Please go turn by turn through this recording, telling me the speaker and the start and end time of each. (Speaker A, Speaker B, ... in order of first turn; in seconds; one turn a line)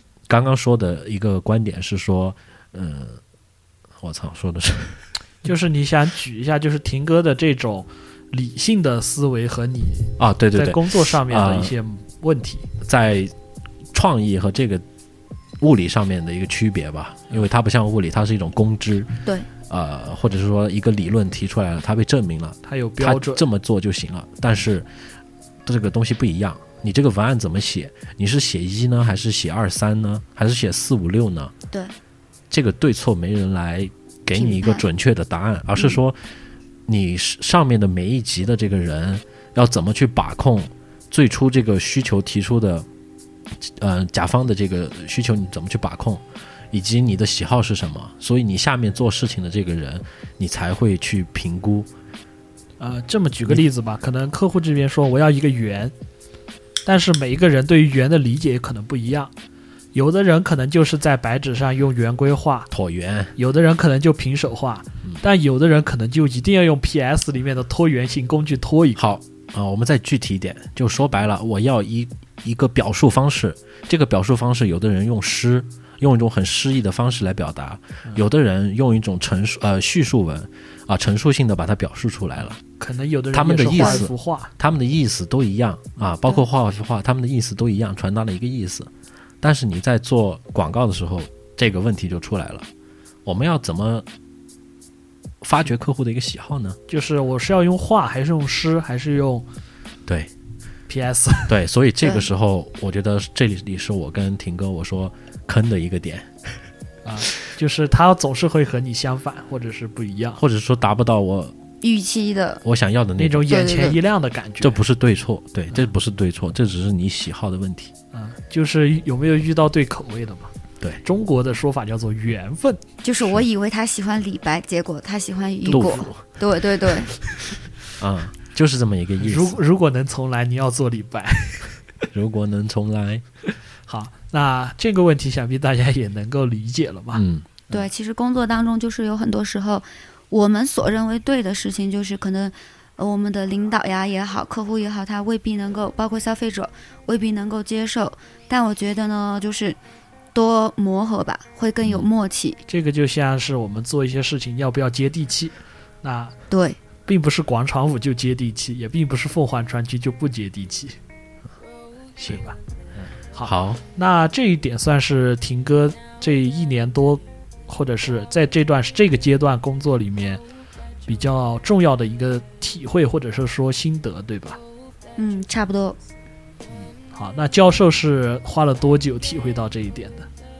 Speaker A: 0.3-3.2
Speaker A: 4.0-5.1
Speaker B: 5.4-12.7
Speaker A: 10.2-11.7
Speaker A: 12.8-13.3
Speaker A: 13.9-14.8
Speaker A: 15.6-19.1
Speaker A: 19.7-24.9
Speaker B: 22.7-23.4
Speaker A: 25.6-31.5
Speaker A: 32.5-36.3
Speaker C: 34.3-34.8
Speaker A: 36.9-42.9
Speaker A: 43.6-51.9
Speaker B: 52.8-55.9
Speaker B: 56.9-59.3
Speaker B: 59.9-62.7
Speaker A: 62.7-63.3
Speaker B: 63.4-69.1
Speaker A: 69.0-82.6
Speaker B: 82.6-84.5
Speaker A: 83.3-88.9
Speaker C: 83.8-84.0
Speaker A: 89.4-92.7
Speaker A: 93.2-94.1
Speaker A: 95.4-96.8
Speaker B: 96.9-99.5
Speaker B: 100.9-101.6
Speaker A: 101.5-106.6
Speaker B: 107.0-110.4
Speaker A: 110.4-111.5
Speaker C: 111.8-112.6
Speaker A: 112.6-113.5
Speaker B: 113.2-114.8
Speaker C: 113.5-114.0
Speaker A: 114.6-117.9
Speaker B: 118.1-120.5
Speaker B: 121.0-122.8
Speaker C: 123.0-127.1
Speaker A: 125.7-126.2
Speaker A: 128.0-129.6
Speaker B: 129.2-131.8
Speaker A: 132.1-133.2
Speaker B: 133.9-137.9
Speaker A: 137.1-137.5
Speaker C: 137.7-149.8
Speaker C: 150.3-152.6
Speaker B: 152.7-156.4
Speaker C: 156.5-156.8
Speaker B: 157.1-161.0
Speaker B: 162.2-162.6
Speaker B: 163.3-170.4
Speaker A: 163.4-163.8
Speaker B: 171.1-174.6
Speaker C: 175.2-176.0
Speaker B: 176.8-180.3